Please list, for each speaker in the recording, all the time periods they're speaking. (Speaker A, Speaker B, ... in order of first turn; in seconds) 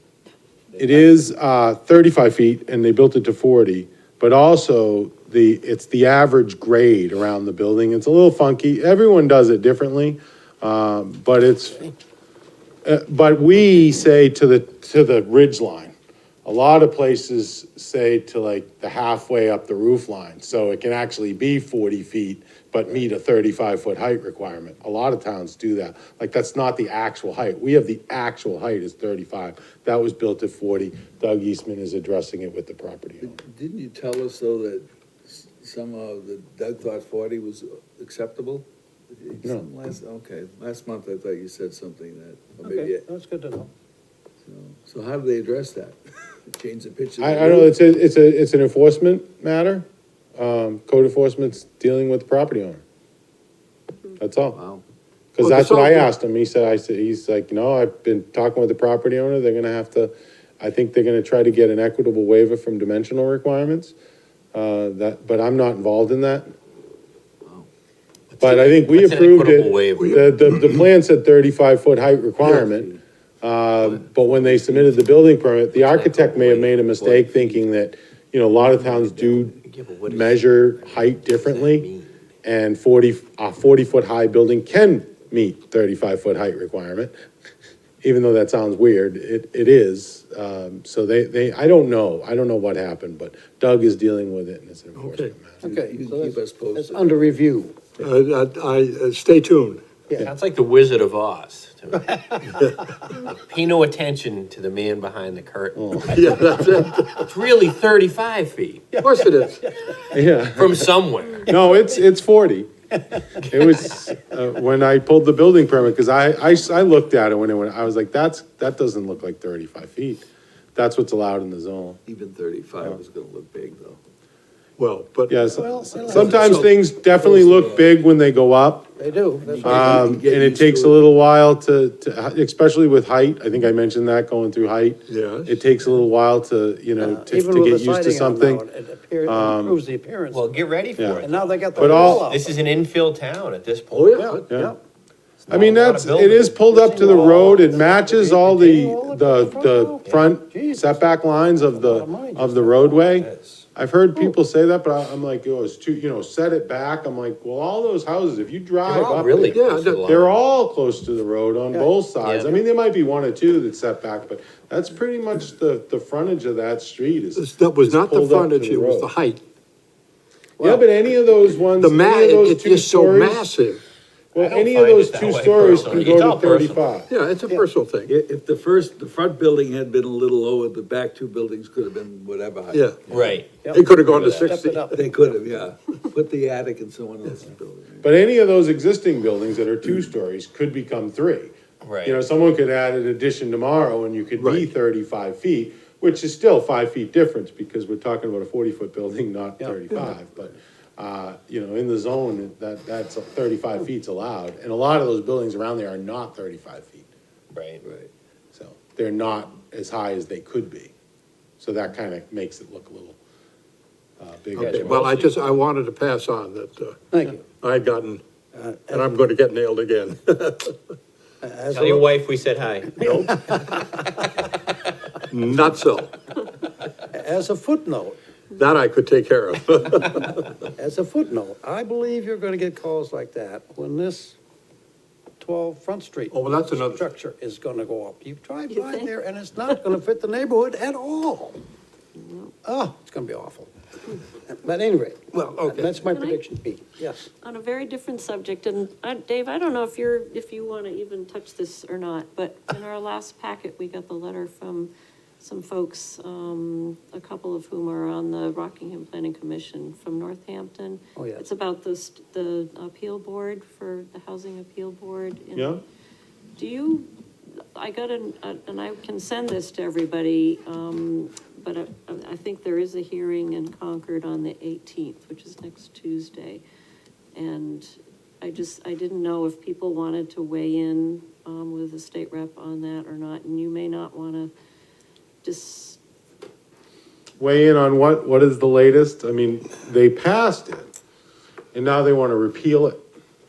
Speaker A: 0.8-11.9, 12.8-33.4, 47.2-52.8, 54.2-54.6, 55.3-63.9, 64.5-66.5, 68.4-79.5, 80.1-81.9, 82.4-87.1, 88.0-95.6, 105.7-106.7, 110.1-110.8, 111.4-112.7, 113.4-122.0, 125.3-128.9, 129.6-138.6, 139.2-139.8, 140.9-142.2, 144.5-144.7, 145.5-169.1, 170.6-173.5, 174.3-177.1, 188.0-207.1, 208.5-210.9, 211.6-213.2, 214.2-215.2, 265.5-265.8, 287.4-290.9, 291.7-293.0
Speaker B: 33.2-43.0, 44.4-47.8, 54.5-54.8, 72.5-73.0, 74.0-74.9, 78.7-79.5, 95.6-97.4, 122.0-124.0, 126.3-128.0, 129.4-131.1, 178.1-183.4, 184.9-188.1
Speaker C: 42.6-43.7, 95.6-97.9, 108.9-109.9, 125.5-126.6, 129.0-129.9, 137.0-142.6, 144.2-144.8, 146.4-153.1, 183.6-185.4, 199.6-200.2, 217.1-217.4, 218.5-219.1, 221.4-222.2, 222.9-224.1, 227.1-228.2, 230.8-234.4, 235.4-241.6, 242.6-243.7, 244.5-247.2, 261.1-261.4
Speaker D: 55.4-56.1, 94.9-95.3, 98.0-99.8, 106.0-107.3, 109.0-109.6, 124.8-125.4, 126.1-126.6, 135.1-135.6, 143.9-144.5, 159.5-160.1, 167.3-169.4, 171.8-173.8, 177.1-178.1, 182.7-183.0, 183.7-185.0, 194.4-194.7, 214.6-217.0, 217.5-218.2, 218.9-220.7, 225.3-226.1, 228.5-230.5, 236.3-237.1, 245.4-245.9
Speaker E: 68.3-70.2, 75.7-77.4, 79.6-82.1, 100.2-102.5, 103.3-106.3, 107.2-109.0, 110.5-111.5, 140.3-144.2, 145.4-146.5, 147.0-147.6, 153.1-153.6, 158.8-160.4, 162.2-162.6, 174.3-176.9, 183.1-184.6, 191.8-192.2, 207.5-207.8, 214.6-215.4, 221.7-223.2
Speaker F: 238.7-239.1, 242.1-242.5, 246.0-246.4, 247.4-254.9, 255.4-265.7, 266.6-267.1, 267.8-276.6, 277.3-284.5, 285.4-286.0